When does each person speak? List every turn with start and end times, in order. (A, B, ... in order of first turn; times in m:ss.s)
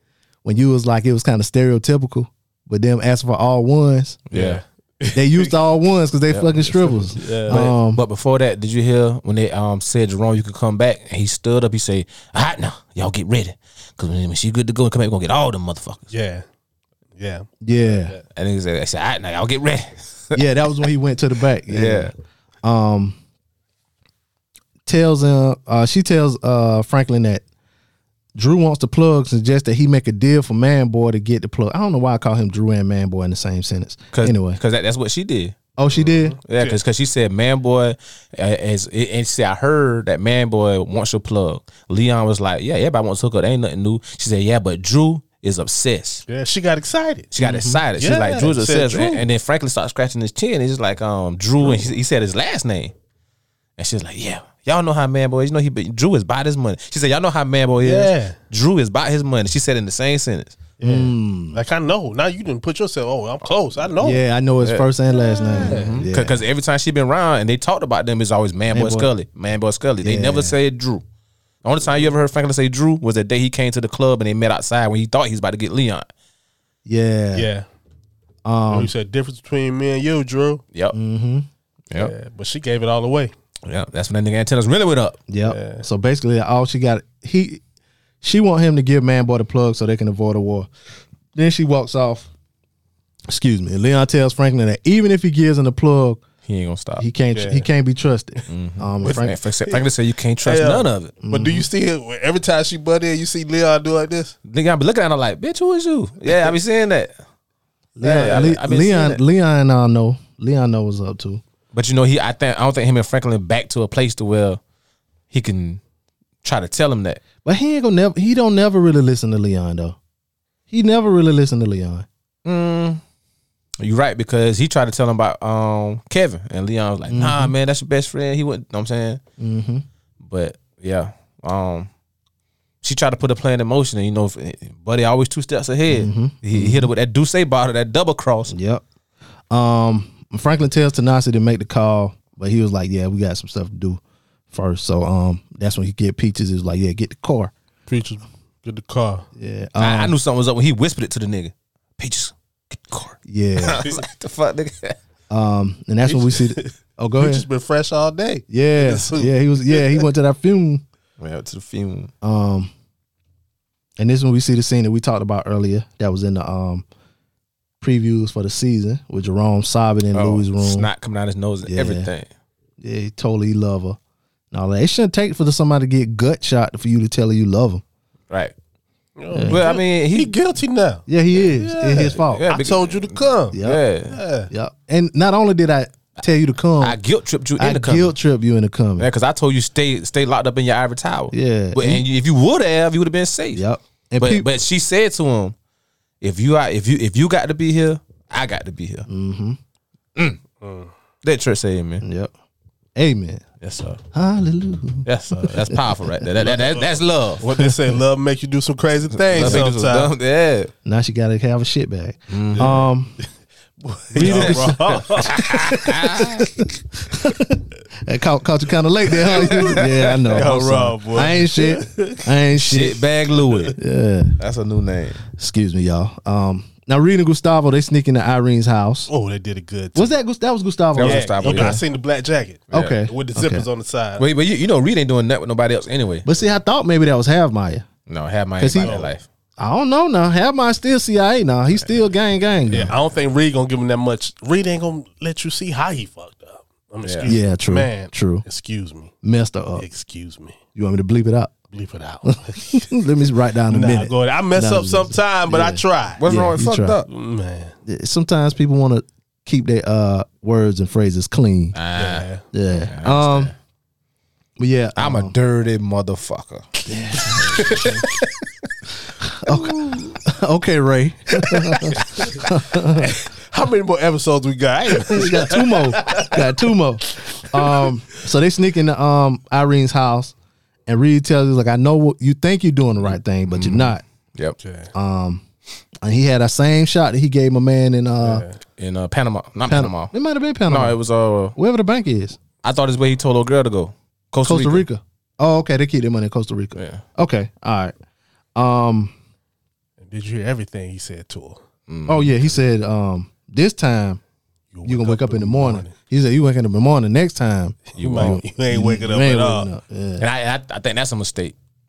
0:00.4-0:04.2 A
0:04.3-0:04.6 B
0:04.3-0:05.5 C
0:05.1-0:08.0 A
0:06.3-0:16.1 B
0:07.1-0:07.7 C
0:16.1-0:16.4 C
0:17.2-0:18.2 C
0:17.6-0:18.1 A
0:18.3-0:20.4 B
0:20.3-0:22.1 A
0:21.7-0:22.1 B
0:22.6-0:23.2 A
0:24.8-0:27.4 A
0:28.3-0:34.6 A
0:34.1-0:35.6 B
0:35.8-0:36.4 A
0:36.0-0:36.8 C
0:36.4-0:46.2 B
0:46.3-0:47.3 C
0:47.3-0:52.9 B
0:47.4-0:47.8 A
0:48.0-0:49.2 C
0:51.6-0:51.9 C
0:53.8-1:00.6 B
0:57.8-0:58.4 C
1:00.8-1:04.2 C
1:00.8-1:01.6 A
1:04.0-1:06.4 A
1:04.6-1:04.9 B
1:05.4-1:05.9 C
1:05.6-1:11.0 B
1:08.7-1:09.1 A
1:10.0-1:10.5 A
1:11.6-1:16.1 B
1:16.8-1:17.5 A
1:17.3-1:17.6 C
1:18.4-1:18.9 A
1:18.7-1:20.6 C
1:20.9-1:21.5 A
1:21.9-1:23.3 C
1:23.6-1:25.2 B
1:25.3-1:27.6 A
1:25.4-1:25.8 C
1:28.2-1:30.7 A
1:31.3-1:32.3 A
1:33.3-1:36.2 A
1:36.4-1:37.0 B
1:37.0-1:39.3 A
1:37.3-1:37.7 C
1:38.5-1:41.1 B
1:39.0-1:39.9 C
1:40.4-1:44.4 C
1:41.2-1:41.7 A
1:44.4-1:47.1 B
1:48.0-1:51.4 A
1:48.0-1:49.2 B
1:51.7-1:54.6 B
1:55.3-1:55.8 B
1:56.4-1:57.2 B
1:57.4-2:00.0 A
2:00.7-2:02.0 A
2:02.4-2:03.0 B
2:03.8-2:09.2 B
2:07.1-2:07.5 A
2:09.4-2:09.8 A
2:10.2-2:11.9 B
2:12.8-2:18.5 B
2:15.9-2:16.9 A
2:18.5-2:18.8 A
2:19.5-2:27.5 A
2:27.9-2:29.2 C
2:29.4-2:30.1 A
2:29.8-2:35.0 B
2:33.3-2:33.8 A
2:35.3-2:37.4 A
2:36.0-2:40.0 C
2:38.5-2:40.8 A
2:41.2-2:42.1 B
2:42.2-2:42.7 A
2:44.0-2:46.8 A
2:47.8-2:50.9 A
2:50.1-2:52.3 B
2:51.6-2:52.1 A
2:52.8-2:54.0 A
2:54.5-2:57.8 A
2:59.2-3:04.5 C
2:59.3-2:59.6 A
2:59.5-3:00.3 B
3:01.1-3:02.5 A
3:02.3-3:04.2 B
3:03.5-3:03.8 A
3:04.5-3:07.0 A
3:06.8-3:08.1 B
3:07.6-3:09.0 A
3:09.0-3:13.6 B
3:11.3-3:12.0 A
3:13.5-3:14.5 A
3:14.2-3:15.5 B
3:16.2-3:19.1 B
3:19.1-3:19.6 A
3:20.6-3:20.9 C
3:21.2-3:22.0 B
3:22.0-3:22.3 A
3:23.0-3:23.4 A
3:23.6-3:24.0 B
3:24.1-3:25.8 A
3:25.0-3:27.4 B
3:26.4-3:30.1 C
3:29.2-3:30.7 B
3:29.4-3:29.6 A
3:30.8-3:33.2 A
3:32.3-3:32.7 B
3:32.6-3:32.8 C
3:33.8-3:35.9 C
3:34.1-3:43.0 A
3:34.2-3:36.5 B
3:39.2-3:42.3 C
3:40.0-3:40.5 B
3:42.6-3:43.8 B
3:43.4-3:43.7 C
3:43.7-3:44.3 A
3:44.4-3:45.2 B
3:45.3-3:49.1 A
3:49.1-3:50.1 C
3:49.9-3:51.8 A
3:50.9-3:51.8 B
3:51.0-3:54.2 C
3:52.7-3:53.7 A
3:54.2-3:56.2 B
3:56.2-3:57.8 A
3:58.1-3:59.2 B
3:58.6-3:59.0 A
3:58.7-3:59.1 C
3:59.6-4:02.9 A
4:02.7-4:09.1 C
4:07.0-4:07.3 B
4:07.2-4:08.4 A
4:09.2-4:09.8 A
4:09.8-4:10.6 C
4:10.7-4:11.5 A
4:11.7-4:13.0 C
4:12.2-4:17.0 A
4:13.7-4:16.2 C
4:16.2-4:17.1 B
4:17.1-4:17.7 C
4:17.8-4:21.8 A
4:21.7-4:23.5 B
4:22.0-4:22.4 C
4:22.5-4:23.5 A
4:24.6-4:25.3 A
4:25.0-4:28.3 B
4:26.9-4:28.0 A
4:27.4-4:28.0 C
4:29.2-4:33.1 A
4:32.2-4:32.4 C
4:33.0-4:36.5 C
4:35.0-4:40.3 A
4:37.1-4:37.9 C
4:40.9-4:44.0 A
4:43.5-4:44.6 B
4:44.6-4:44.9 C
4:44.9-4:45.4 A
4:46.0-4:48.4 A
4:48.2-4:48.6 C
4:48.8-4:50.1 B
4:49.7-4:51.0 A
4:50.7-4:51.5 B
4:51.5-4:52.4 A
4:52.6-4:54.9 B
4:54.4-4:57.9 A
4:56.7-4:57.0 B
4:58.6-4:59.1 A
5:00.0-5:01.6 C
5:01.9-5:02.5 B
5:02.1-5:04.2 A
5:04.7-5:05.9 C
5:04.8-5:10.2 A
5:07.9-5:09.7 C
5:08.0-5:08.4 B
5:10.2-5:11.5 B